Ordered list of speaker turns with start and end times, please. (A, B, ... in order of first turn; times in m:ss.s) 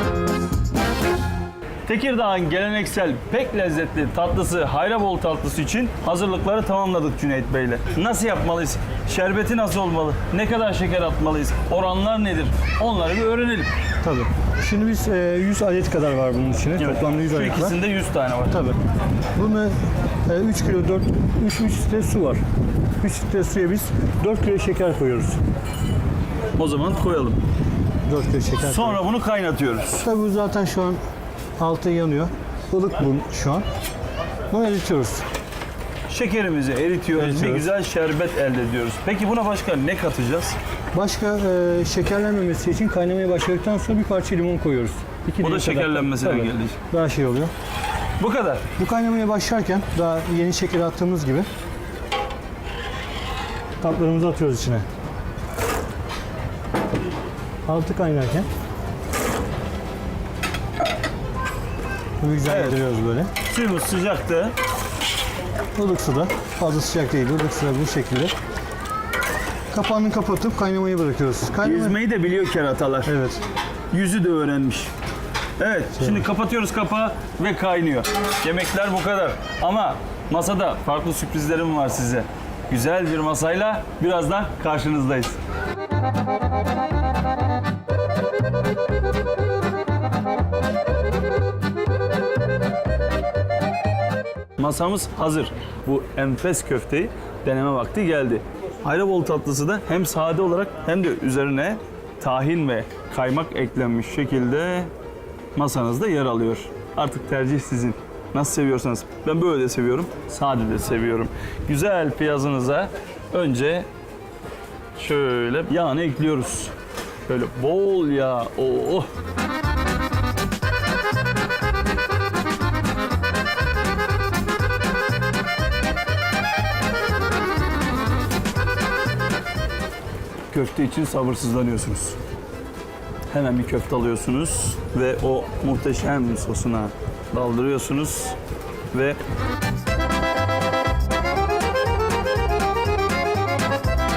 0:01.8-0:13.7 A
0:14.0-0:17.8 B
0:16.8-0:18.6 A
0:18.5-0:18.8 B
0:19.4-0:22.4 B
0:23.0-0:25.4 B
0:26.6-0:27.4 A
0:28.0-0:29.0 B
0:28.6-0:30.0 A
0:29.9-0:31.0 B
0:31.6-0:33.6 B
0:34.5-0:35.2 B
0:36.1-0:40.6 A
0:37.1-0:37.7 B
0:40.9-0:47.5 B
0:45.4-0:46.8 A
0:48.2-0:48.6 A
0:48.8-0:51.5 B
0:53.8-0:54.8 B
0:57.6-0:58.5 B
1:02.2-1:03.3 B
1:02.4-1:02.8 A
1:03.4-1:04.5 A
1:05.7-1:08.3 B
1:09.7-1:12.0 B
1:11.6-1:13.1 A
1:13.0-1:13.4 B
1:13.9-1:14.9 A
1:15.6-1:25.4 A
1:34.6-1:44.9 A
1:45.5-1:53.8 A
1:55.0-1:56.7 A
1:57.2-1:59.1 A
2:10.5-2:12.2 A
2:13.3-2:18.4 A
2:18.9-2:19.2 A